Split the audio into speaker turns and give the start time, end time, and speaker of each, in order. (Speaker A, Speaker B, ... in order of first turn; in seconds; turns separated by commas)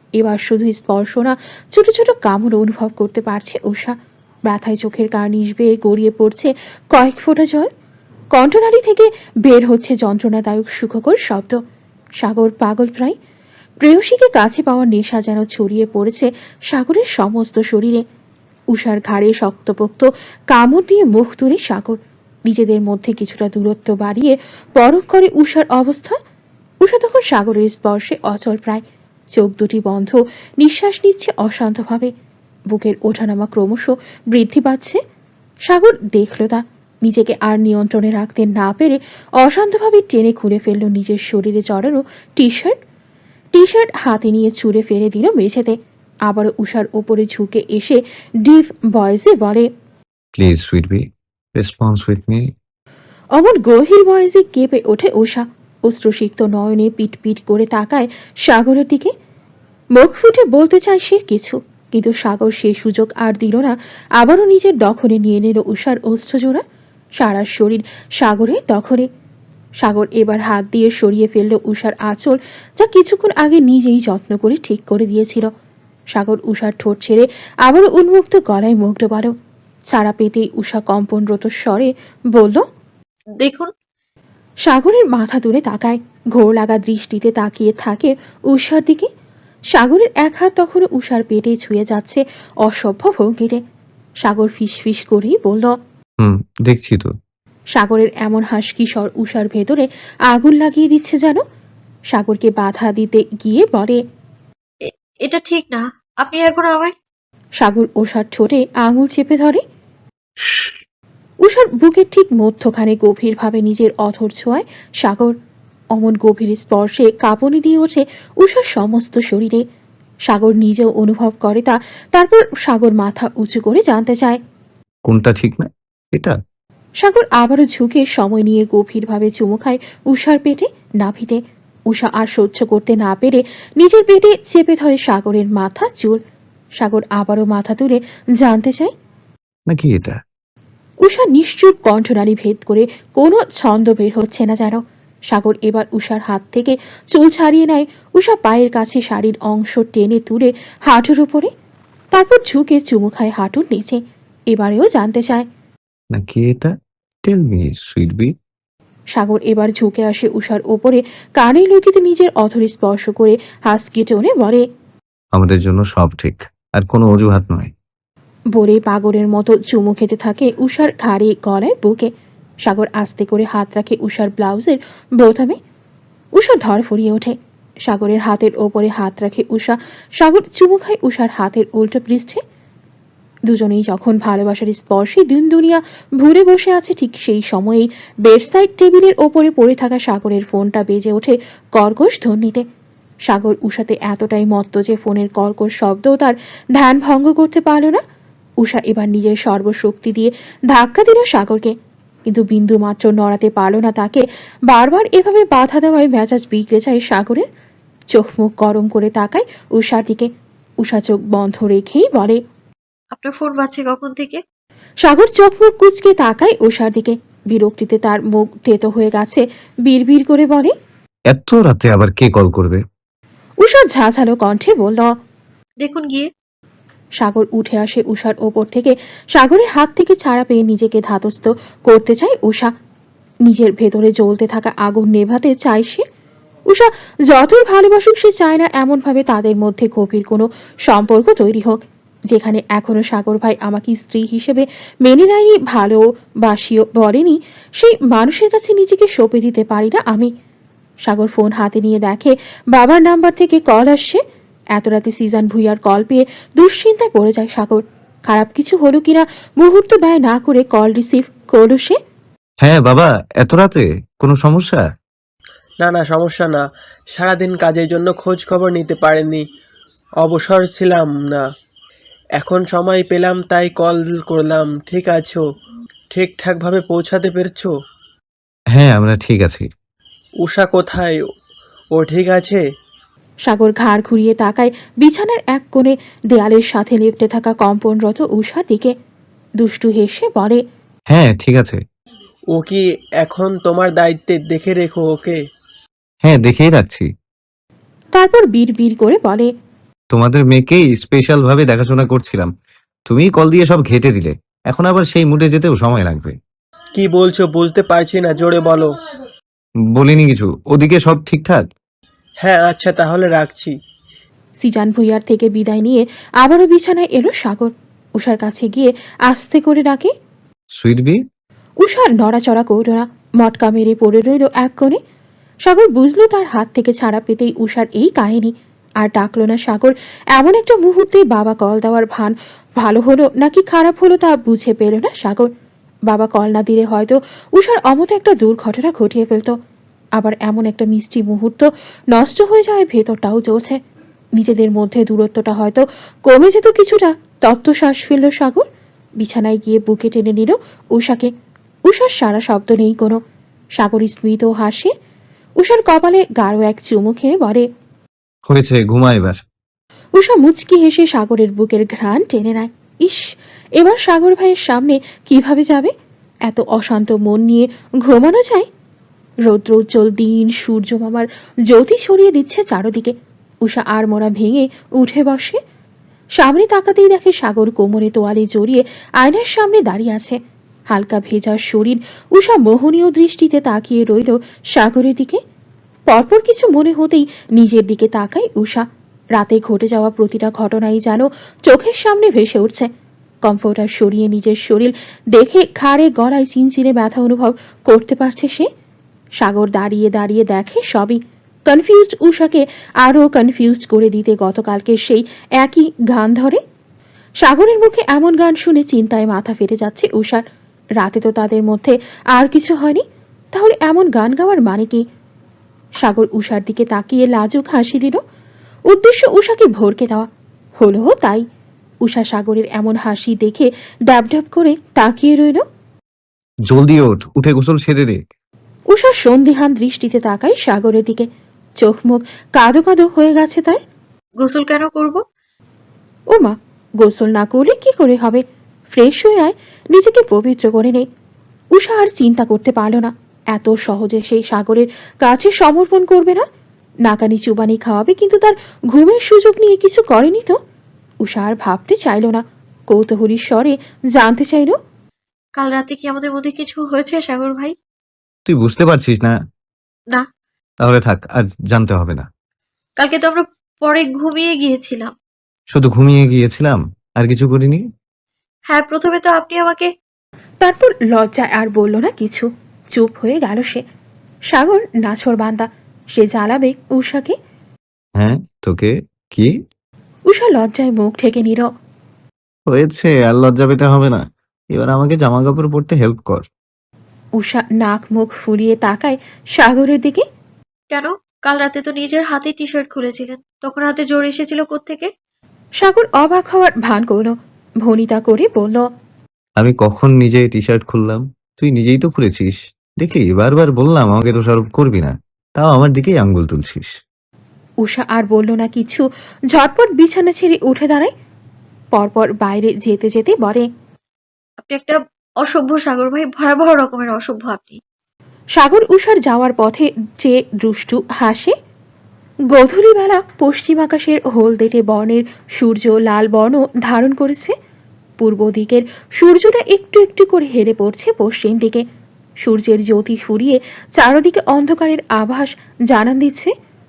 Speaker A: 0.2-7.7, Speaker A: 8.3-11.6, Speaker A: 12.2-13.2, Speaker A: 13.8-18.0, Speaker A: 18.7-26.2, Speaker A: 26.8-32.1, Speaker A: 32.7-35.0, Speaker A: 35.6-42.8, Speaker A: 43.5-45.8, Speaker A: 46.3-49.7, Speaker B: 50.4-52.5, Speaker A: 53.3-59.1, Speaker A: 59.9-66.6, Speaker A: 67.2-69.1, Speaker A: 69.8-75.5, Speaker A: 76.1-79.3, Speaker A: 79.9-82.6, Speaker C: 83.4-83.7, Speaker A: 84.7-89.1, Speaker A: 89.7-93.6, Speaker A: 94.2-95.7, Speaker B: 96.2-97.1, Speaker A: 97.7-101.4, Speaker A: 102.1-104.0, Speaker C: 104.8-106.9, Speaker A: 107.6-109.6, Speaker B: 110.4-110.8, Speaker A: 111.4-115.3, Speaker A: 115.9-119.6, Speaker A: 120.3-124.4, Speaker B: 125.0-126.4, Speaker A: 127.0-136.2, Speaker A: 136.8-138.9, Speaker B: 139.7-140.2, Speaker A: 141.0-151.5, Speaker A: 152.1-154.0, Speaker A: 154.5-155.4, Speaker B: 156.1-156.7, Speaker B: 157.2-158.3, Speaker A: 159.1-164.6, Speaker B: 165.3-167.7, Speaker A: 168.5-172.1, Speaker A: 172.6-175.6, Speaker A: 176.3-182.4, Speaker A: 183.5-192.6, Speaker A: 193.3-198.0, Speaker A: 198.6-201.7, Speaker A: 202.3-207.4, Speaker A: 208.1-210.3, Speaker A: 210.8-212.4, Speaker C: 213.1-214.4, Speaker A: 215.0-220.7, Speaker B: 221.3-222.8, Speaker A: 223.6-225.1, Speaker C: 225.8-226.3, Speaker A: 227.2-232.7, Speaker A: 233.4-236.0, Speaker A: 236.7-241.8, Speaker A: 242.3-250.3, Speaker A: 251.0-254.2, Speaker A: 254.7-262.0, Speaker B: 262.6-264.8, Speaker D: 265.8-266.6, Speaker D: 267.1-269.4, Speaker D: 270.2-271.5, Speaker D: 272.4-275.4, Speaker D: 276.1-277.7, Speaker B: 278.7-279.7, Speaker D: 280.4-281.2, Speaker D: 281.9-282.6, Speaker A: 283.4-288.9, Speaker A: 289.6-290.6, Speaker B: 291.1-291.8, Speaker D: 292.5-295.4, Speaker B: 296.2-297.1, Speaker A: 298.1-299.5, Speaker B: 300.1-302.5, Speaker B: 303.1-306.4, Speaker D: 306.9-308.9, Speaker B: 309.9-311.7, Speaker D: 312.4-313.7, Speaker A: 314.6-320.1, Speaker B: 320.8-321.2, Speaker A: 321.8-325.0, Speaker A: 325.6-335.5, Speaker A: 336.1-339.5, Speaker A: 340.2-343.8, Speaker A: 344.4-348.6, Speaker A: 349.2-351.3, Speaker A: 351.9-353.2, Speaker A: 353.8-354.9, Speaker A: 355.6-357.6, Speaker B: 358.5-359.4, Speaker A: 360.1-365.9, Speaker A: 366.5-368.7, Speaker A: 369.4-373.1, Speaker A: 373.6-375.6, Speaker A: 376.4-380.4, Speaker A: 380.9-385.4, Speaker A: 386.1-392.9, Speaker A: 393.4-398.7, Speaker A: 399.4-406.6, Speaker A: 407.4-410.4, Speaker A: 411.0-415.0, Speaker A: 416.0-418.2, Speaker A: 418.9-421.4, Speaker A: 422.0-425.6, Speaker B: 426.7-428.2, Speaker A: 428.9-431.3, Speaker A: 431.8-433.8, Speaker C: 434.4-435.2, Speaker A: 436.3-441.0, Speaker A: 441.7-446.4, Speaker A: 447.0-450.6, Speaker A: 451.2-454.8, Speaker C: 455.6-457.7, Speaker B: 458.5-459.4, Speaker B: 460.8-462.3, Speaker C: 463.0-465.1, Speaker B: 465.7-467.8, Speaker C: 468.7-469.9, Speaker A: 470.6-473.8, Speaker A: 474.5-477.3, Speaker B: 478.2-479.5, Speaker A: 480.3-481.7, Speaker B: 482.7-486.4, Speaker A: 487.4-490.2, Speaker C: 490.9-495.1, Speaker A: 495.8-498.8, Speaker B: 499.6-506.9, Speaker A: 507.8-511.1, Speaker A: 511.9-513.7, Speaker C: 514.6-517.8, Speaker A: 518.5-521.5, Speaker A: 522.5-527.5, Speaker A: 528.2-531.8, Speaker A: 532.4-536.5